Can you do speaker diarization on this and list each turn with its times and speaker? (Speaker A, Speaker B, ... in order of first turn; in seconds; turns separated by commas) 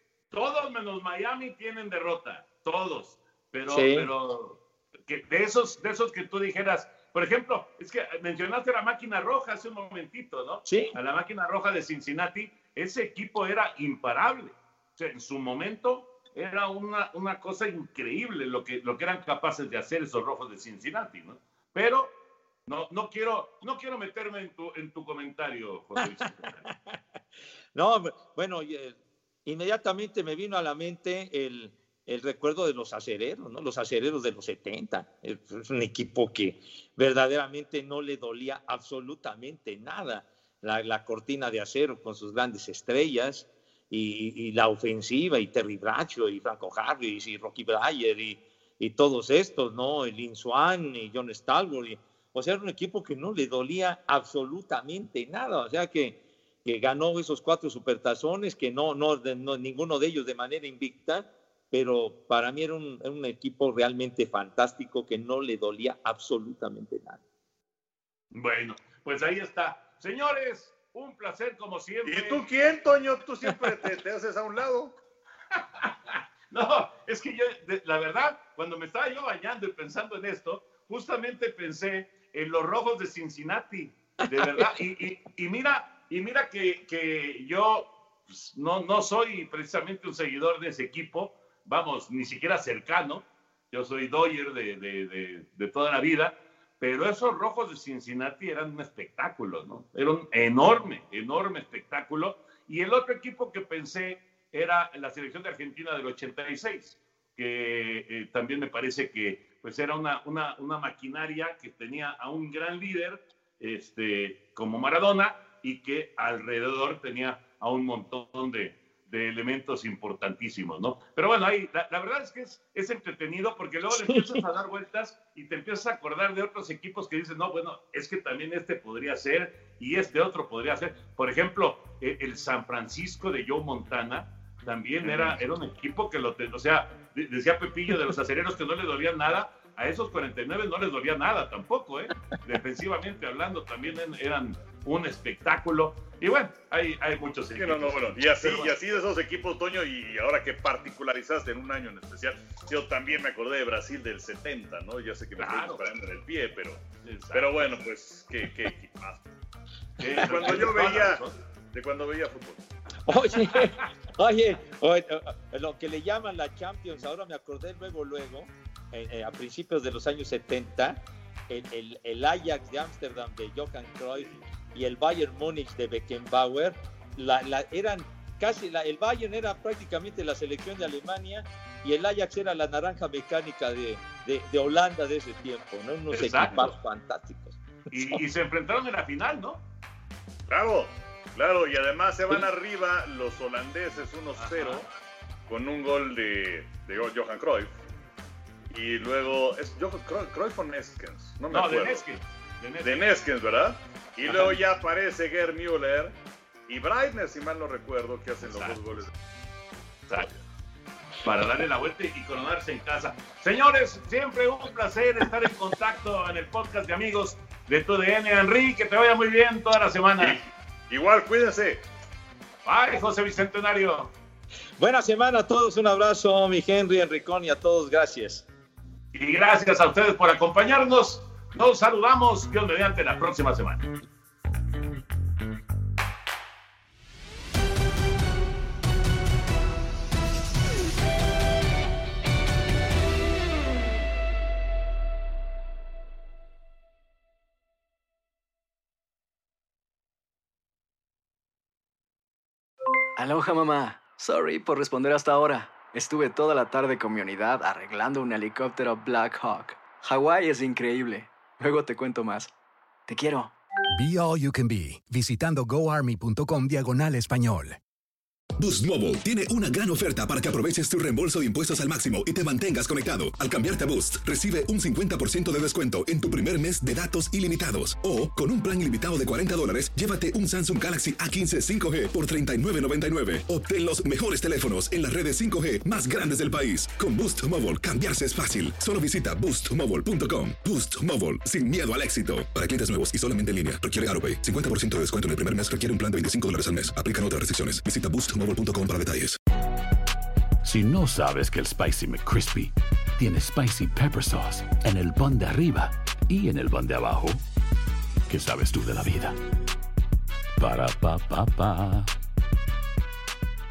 Speaker A: 0.3-22.1, Speaker B: 3.7-4.1, Speaker B: 10.7-10.9, Speaker A: 22.7-26.6, Speaker B: 26.6-27.0, Speaker B: 27.7-67.2, Speaker A: 68.3-72.5, Speaker C: 72.0-75.0, Speaker A: 75.5-148.8, Speaker B: 84.4-84.7, Speaker B: 124.0-124.4, Speaker C: 135.0-135.4, Speaker C: 147.6-159.2, Speaker A: 155.4-155.8, Speaker A: 157.0-157.5, Speaker A: 160.0-161.4, Speaker C: 160.2-162.6, Speaker B: 163.1-188.2, Speaker A: 186.1-186.7, Speaker A: 187.9-189.6, Speaker C: 190.5-194.8, Speaker A: 194.4-194.8, Speaker C: 195.5-197.8, Speaker C: 198.7-202.0, Speaker A: 201.5-203.1, Speaker C: 202.8-206.2, Speaker A: 204.3-204.6, Speaker C: 206.7-209.1, Speaker A: 208.4-208.8, Speaker A: 211.2-220.4, Speaker C: 220.2-221.8, Speaker A: 222.6-224.1, Speaker B: 224.8-228.4, Speaker A: 229.1-233.8, Speaker D: 253.2-262.5, Speaker D: 263.1-263.5, Speaker E: 263.9-267.8, Speaker F: 268.6-299.4, Speaker G: 300.6-307.4, Speaker G: 308.3-309.4, Speaker G: 310.6-312.1